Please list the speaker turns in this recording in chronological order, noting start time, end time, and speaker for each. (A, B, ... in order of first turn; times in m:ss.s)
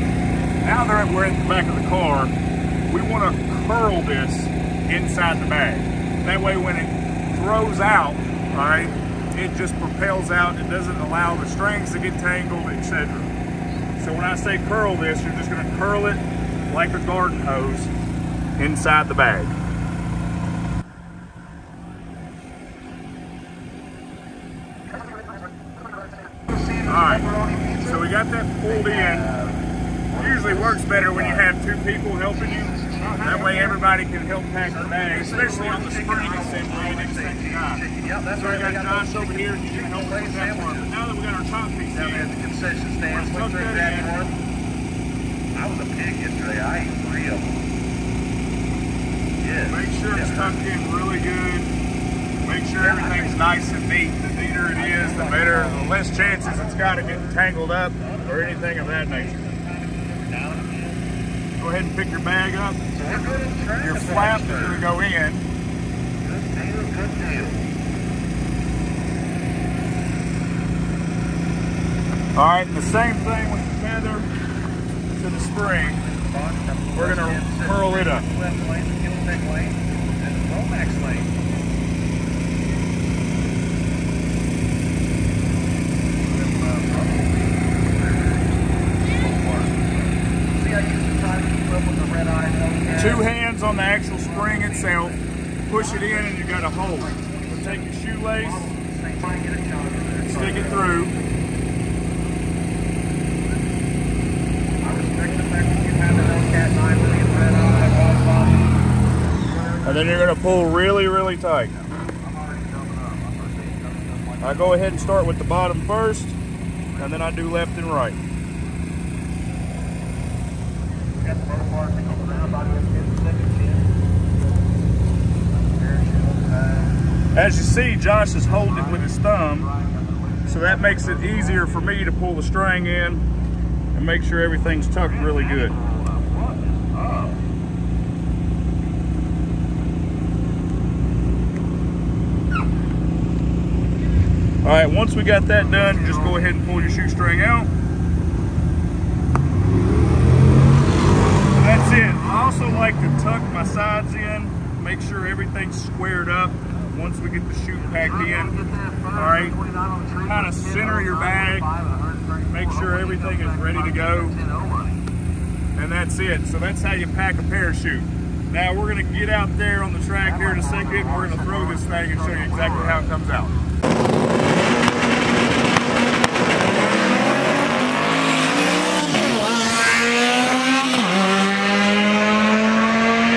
0:00.6-0:02.3 A
0:02.9-0:13.3 A
0:14.0-0:17.9 A
0:18.6-0:19.5 A
0:26.5-0:27.8 B
0:26.8-0:29.3 A
0:28.7-0:29.5 B
0:30.1-0:42.4 A
0:30.2-0:31.4 B
0:32.6-0:33.8 B
0:34.6-0:40.9 B
0:42.0-0:44.4 B
0:43.1-0:44.1 A
0:45.5-0:47.5 B
0:49.4-0:50.5 B
0:49.7-0:51.7 A
0:52.4-0:59.4 A
0:52.8-0:53.5 B
0:54.7-0:57.4 B
0:58.0-1:01.0 B
1:01.6-1:02.8 A
1:02.9-1:04.8 B
1:03.8-1:05.4 A
1:06.2-1:07.6 B
1:12.3-1:14.3 A
1:15.1-1:16.0 A
1:15.6-1:21.3 B
1:16.9-1:18.2 A
1:26.3-1:33.2 B
1:32.9-1:38.7 A
1:34.2-1:41.0 B
1:40.2-1:41.1 A
1:44.8-1:50.2 B
1:49.8-1:51.8 A
1:52.2-1:55.2 B
1:54.4-1:56.4 A
1:57.0-1:58.2 A
2:01.2-2:03.9 B
2:05.7-2:07.0 B
2:07.3-2:09.7 A
2:08.4-2:11.9 B
2:10.5-2:13.2 A
2:13.9-2:15.8 A
2:15.0-2:17.4 B
2:24.6-2:27.7 A
2:25.6-2:26.8 B
2:31.5-2:39.6 A
2:38.0-2:45.0 B
2:40.2-2:41.7 A
2:42.5-2:44.4 A
2:45.8-2:53.5 A
2:50.2-2:53.1 B